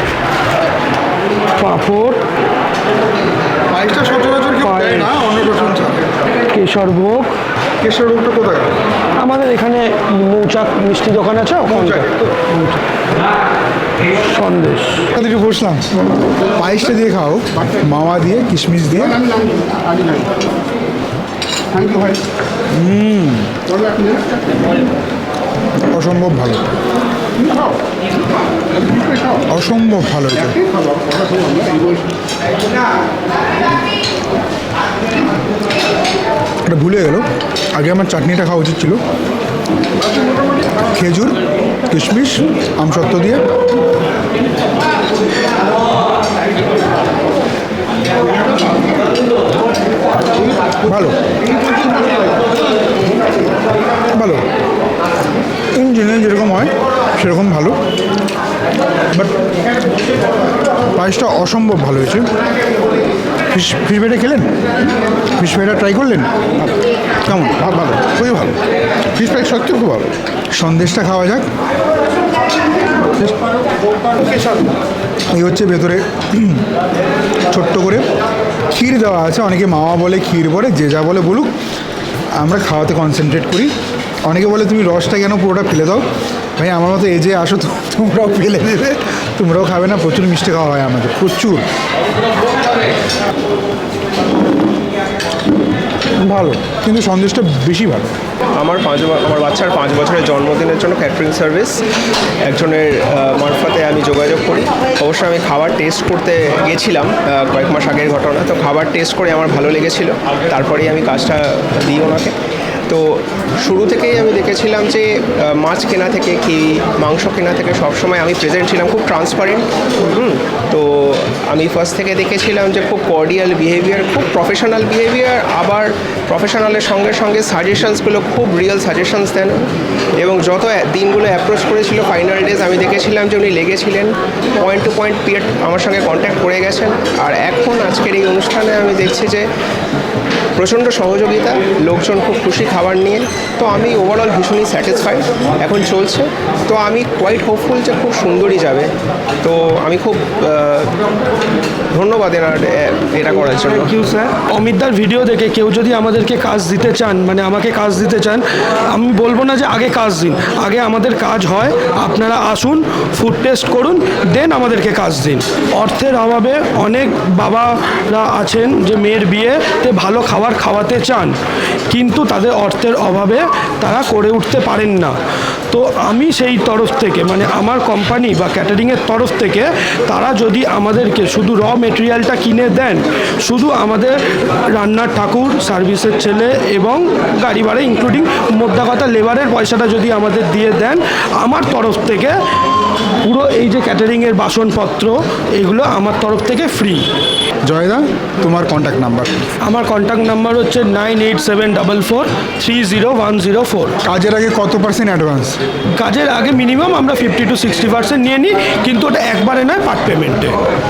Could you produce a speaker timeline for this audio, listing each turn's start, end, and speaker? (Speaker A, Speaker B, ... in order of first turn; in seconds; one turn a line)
Speaker A: 1.6-2.2
Speaker B: 3.7-6.1
Speaker A: 4.6-5.3
Speaker A: 6.5-7.3
Speaker B: 7.8-8.8
Speaker A: 9.2-12.8
Speaker B: 11.7-12.1
Speaker A: 14.1-15.1
Speaker B: 15.1-15.9
Speaker B: 16.4-19.2
Speaker B: 21.7-23.6
Speaker B: 25.9-26.7
Speaker B: 27.4-27.7
Speaker B: 29.3-30.7
Speaker B: 36.7-39.0
Speaker B: 40.8-43.5
Speaker B: 50.8-51.2
Speaker B: 54.1-54.4
Speaker B: 55.8-57.8
Speaker B: 59.1-59.4
Speaker B: 60.9-62.3
Speaker B: 63.5-64.5
Speaker B: 65.4-66.7
Speaker B: 67.2-68.6
Speaker B: 69.1-71.5
Speaker B: 75.3-76.7
Speaker B: 77.5-78.0
Speaker B: 78.7-81.5
Speaker B: 82.4-83.7
Speaker B: 84.3-86.0
Speaker B: 86.6-91.7
Speaker B: 96.2-98.1
Speaker C: 98.5-101.8
Speaker C: 102.5-112.3
Speaker C: 112.9-139.5
Speaker C: 140.6-148.9
Speaker C: 149.4-151.0
Speaker C: 151.9-154.0
Speaker A: 153.7-171.4
Speaker A: 171.9-175.2
Speaker A: 175.7-192.4
Speaker A: 193.2-197.1
Speaker B: 197.7-199.4
Speaker A: 199.6-204.0
Speaker B: 204.0-205.6
Speaker A: 206.0-210.6